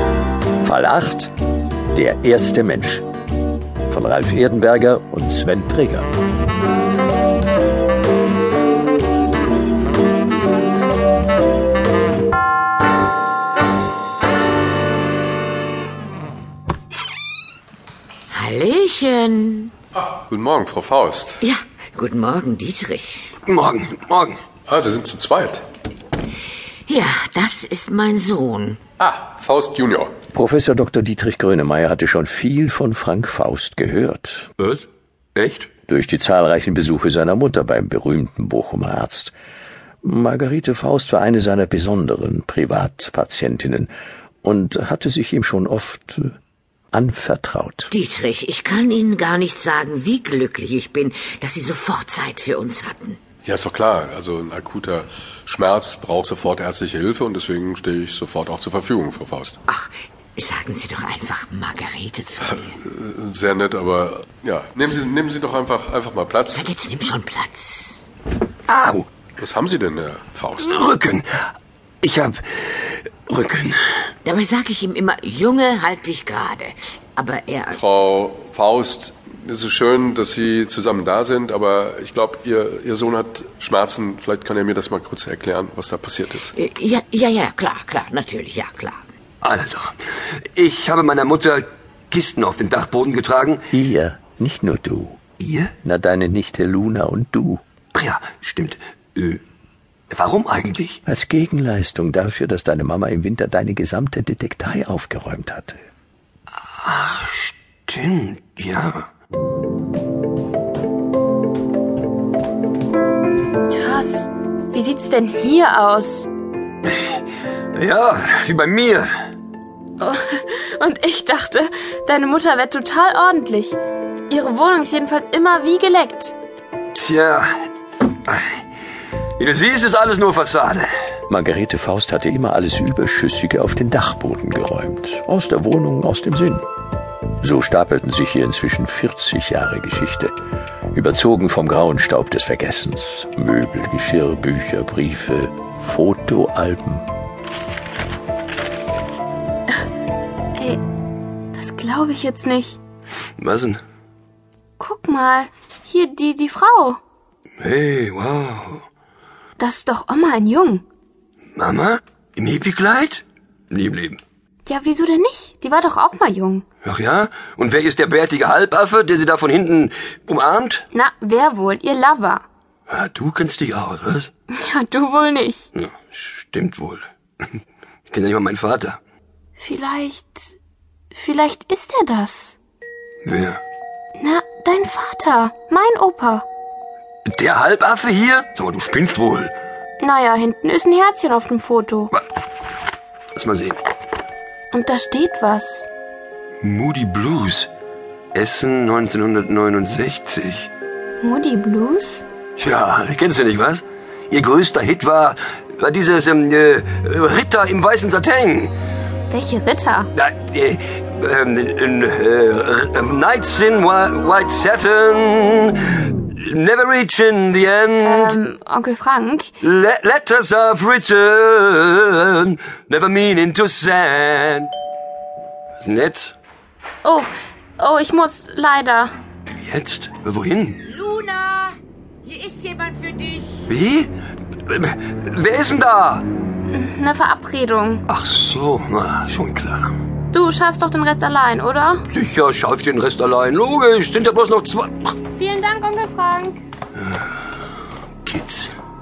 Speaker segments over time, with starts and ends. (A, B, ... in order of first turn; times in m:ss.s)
0:00.6-0:01.3 A
0:01.9-0:03.0 A
0:03.9-0:06.1 A
0:18.3-0:19.7 B
0:20.2-0:21.4 C
0:21.4-0:23.3 B
0:23.4-0:24.4 D
0:24.7-0:25.6 C
0:26.9-0:28.8 B
0:29.0-0:30.1 C
0:30.3-0:34.5 A
0:34.6-0:35.7 D
0:35.9-0:39.3 A
0:40.0-0:43.9 A
0:44.4-0:46.3 A
0:46.9-0:47.9 A
0:47.9-0:53.2 B
0:53.4-0:59.6 C
0:59.7-1:02.6 B
1:02.6-1:06.7 C
1:06.5-1:08.0 B
1:08.7-1:09.1 D
1:09.4-1:10.8 C
1:10.6-1:11.3 D
1:12.0-1:13.8 D
1:14.2-1:17.8 B
1:17.7-1:26.5 C
1:26.6-1:29.0 B
1:29.4-1:29.9 D
1:30.5-1:33.6 D
1:33.7-1:35.2 A
1:35.4-1:35.7 D
1:35.8-1:37.6 A
1:37.9-1:39.4 D
1:40.1-1:41.0 D
1:41.0-1:45.8 A
1:46.8-1:49.1 D
1:53.7-1:56.3 E
1:57.7-1:59.1 D
2:00.0-2:03.8 E
2:04.3-2:06.3 E
2:06.9-2:07.5 D
2:08.2-2:08.6 D
2:09.4-2:10.9 D
2:11.3-2:16.6 A
2:17.4-2:20.3 A
2:20.9-2:27.1 A
2:30.5-2:30.8 E
2:31.5-2:32.8 E
2:33.4-2:33.8 D
2:34.8-2:37.0 E
2:37.6-2:38.8 D
2:39.6-2:40.8 E
2:41.6-2:44.2 D
2:44.6-2:46.6 E
2:46.8-2:50.8 D
2:50.9-2:52.4 E
2:52.9-2:54.3 D
2:54.5-2:55.7 E
2:55.7-2:57.1 D
2:58.1-2:59.0 D
2:59.6-3:00.5 E
3:01.1-3:02.6 E
3:03.2-3:03.6 D
3:04.2-3:06.4 E
3:07.3-3:09.5 D
3:10.0-3:12.1 E
3:13.4-3:13.8 D
3:14.7-3:15.9 E
3:16.6-3:17.7 D
3:18.3-3:20.7 D
3:21.2-3:22.2 E
3:22.6-3:28.7 D
3:29.3-3:30.1 E
3:30.2-3:38.4 D
3:38.0-3:39.5 E
3:39.6-3:44.7 D
3:45.8-3:46.3 D
3:47.0-3:49.1 E
3:49.6-3:50.8 D
3:50.9-3:51.7 B
3:52.2-3:53.6 B
3:53.7-3:54.1 D
3:54.6-3:56.3 D
3:56.7-3:58.0 E
3:58.1-3:59.9 D
4:00.3-4:02.0 E
4:02.1-4:05.2 D
4:05.4-4:06.6 E
4:08.2-4:08.7 D